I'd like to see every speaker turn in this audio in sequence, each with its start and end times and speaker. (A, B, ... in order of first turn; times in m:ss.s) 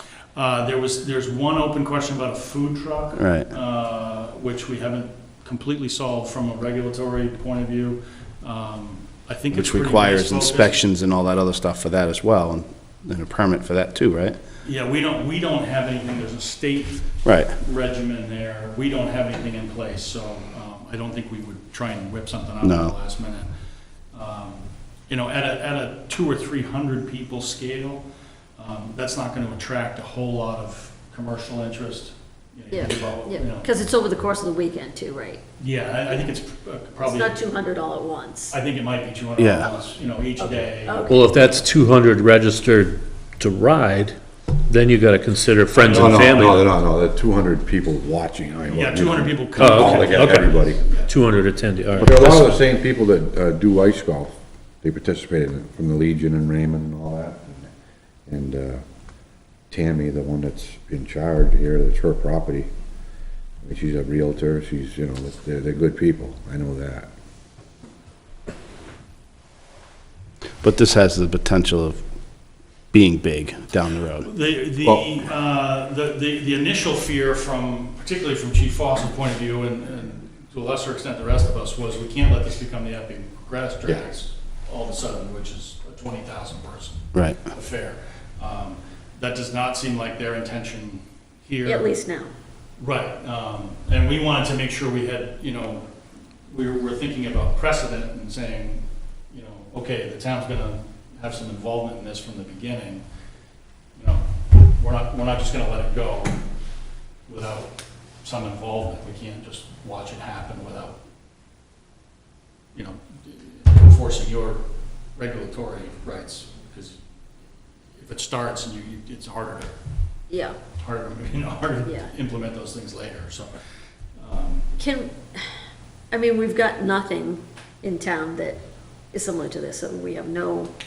0:00.4-0:10.8 A
0:03.2-0:03.5 B
0:09.5-0:14.4 B
0:14.6-0:23.5 A
0:17.2-0:17.5 B
0:22.6-0:22.9 B
0:24.1-0:28.0 A
0:28.6-0:33.7 A
0:32.7-0:35.4 C
0:35.6-0:37.4 A
0:37.0-0:38.6 C
0:38.5-0:41.1 A
0:39.4-0:39.7 B
0:40.4-0:41.3 C
0:41.1-0:46.7 D
0:45.7-0:46.6 A
0:45.9-0:50.8 E
0:48.7-0:51.1 A
0:49.6-0:52.6 D
0:52.0-0:57.7 E
0:58.3-0:58.8 E
0:59.7-1:02.7 E
1:03.6-1:07.1 E
1:10.6-1:12.0 B
1:12.9-1:14.3 B
1:14.2-1:31.9 A
1:27.1-1:27.4 B
1:31.6-1:32.3 C
1:32.8-1:35.8 A
1:36.5-1:43.0 A
1:44.0-1:44.2 A
1:44.8-1:46.4 A
1:47.3-1:47.7 A
1:48.2-1:51.0 A
1:52.8-1:54.6 A
1:55.2-1:57.0 A
1:57.9-1:59.7 A
2:00.3-2:00.6 C
2:00.8-2:03.5 A
2:04.2-2:04.6 A
2:04.8-2:05.4 C
2:06.1-2:10.7 C